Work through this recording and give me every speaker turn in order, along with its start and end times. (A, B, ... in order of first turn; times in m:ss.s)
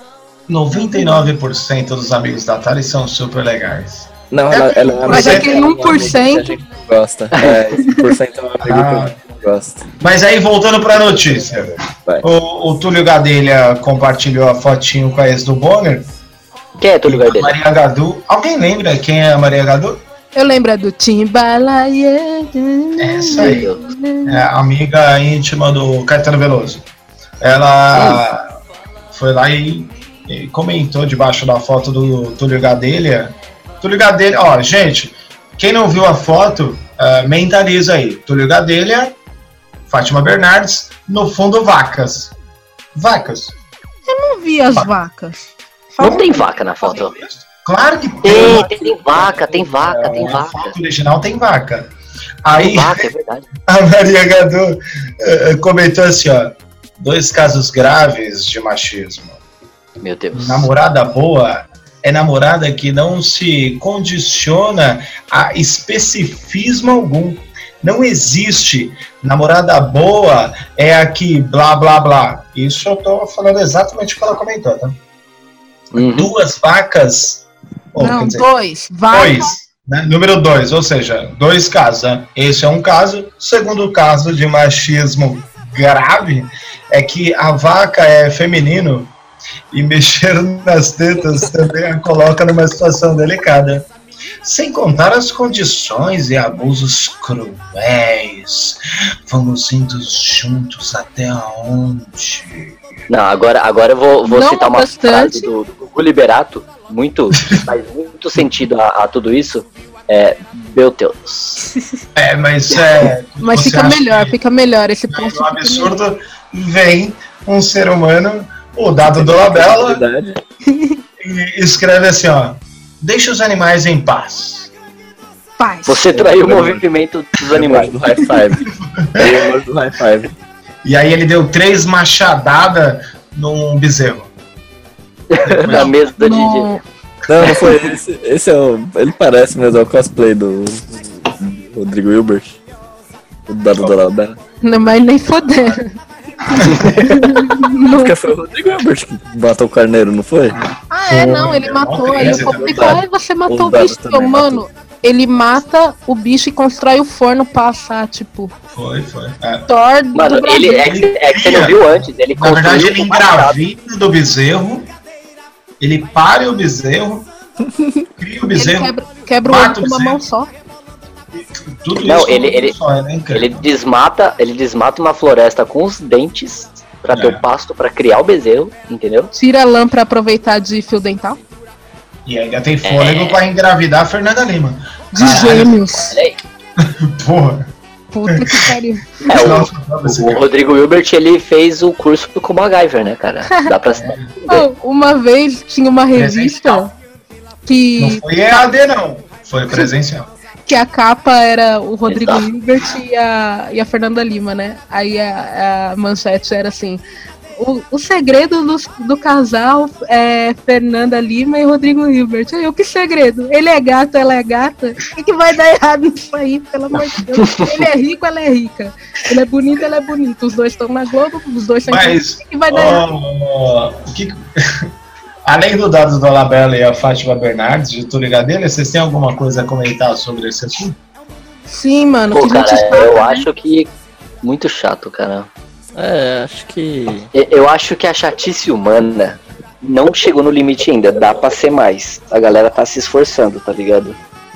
0:00.5-0:06.2 A
0:00.7-0:01.3 B
0:04.3-0:09.9 C
0:04.5-0:06.6 B
0:07.4-0:07.7 D
0:07.8-0:08.2 B
0:08.6-0:09.2 A
0:10.0-0:16.1 A
0:16.8-0:17.5 D
0:17.1-0:20.0 A
0:20.4-0:24.4 B
0:23.0-0:23.7 A
0:23.3-0:23.8 D
0:24.3-0:26.8 A
0:27.4-0:28.5 A
0:27.9-0:28.2 D
0:29.1-0:39.2 A
0:39.9-0:42.3 A
0:43.0-0:43.6 A
0:44.1-0:47.1 B
0:46.0-0:47.1 D
0:47.0-0:51.9 A
0:48.2-0:50.8 D
0:48.4-0:48.7 C
0:52.4-0:53.1 A
0:52.6-0:53.5 D
0:53.7-0:59.4 A
1:00.0-1:00.7 D
1:00.3-1:15.0 A
1:15.9-1:16.3 D
1:15.9-1:18.5 A
1:18.0-1:19.6 B
1:19.1-1:29.1 A
1:29.7-1:33.9 A
1:34.4-1:42.8 A
1:43.1-1:51.6 D
1:44.2-1:45.5 B
1:47.3-1:47.6 A
1:52.2-1:54.4 A
1:52.7-1:53.1 D
1:53.4-1:56.0 B
1:55.1-2:00.0 A
1:59.0-2:00.4 C
2:00.7-2:01.0 B
2:01.2-2:04.7 A
2:05.6-2:06.2 B
2:05.9-2:08.0 D
2:06.1-2:06.8 C
2:07.5-2:07.9 A
2:07.6-2:08.7 C
2:08.2-2:08.5 B
2:09.0-2:09.3 A
2:09.2-2:10.3 C
2:10.8-2:14.3 A
2:15.4-2:16.7 D
2:15.4-2:16.0 A
2:15.8-2:16.8 B
2:17.3-2:22.6 C
2:17.4-2:18.0 D
2:23.5-2:24.4 C
2:24.6-2:25.9 B
2:26.5-2:28.2 B
2:26.6-2:27.0 A
2:27.8-2:30.6 C
2:30.5-2:33.0 A
2:30.9-2:38.5 B
2:32.2-2:34.6 C
2:38.7-2:39.7 A
2:39.7-2:41.0 B
2:40.2-2:43.6 D
2:40.9-2:44.9 A
2:45.8-2:47.3 A
2:48.2-2:48.9 A
2:48.5-2:50.5 B
2:49.4-2:50.2 A
2:51.3-2:53.7 A
2:52.0-2:52.8 D
2:53.3-2:59.3 D
2:57.1-2:57.4 A
2:59.3-3:01.4 B
3:02.3-3:06.2 A
3:02.8-3:03.4 D
3:05.1-3:06.2 B
3:06.1-3:06.4 D
3:06.8-3:07.6 A
3:08.1-3:09.4 B
3:09.3-3:14.6 D
3:09.4-3:10.5 A
3:14.0-3:14.3 A
3:14.5-3:16.9 B
3:16.1-3:16.8 A
3:17.7-3:18.8 B
3:18.0-3:20.3 A
3:20.6-3:27.0 B
3:22.1-3:22.4 D
3:27.6-3:43.0 B
3:37.4-3:37.7 D
3:41.9-3:44.9 A
3:45.5-3:51.0 A
3:51.7-3:53.5 B
3:52.3-3:53.9 D
3:54.4-3:55.5 D
3:56.0-3:57.3 C
3:57.3-4:04.2 D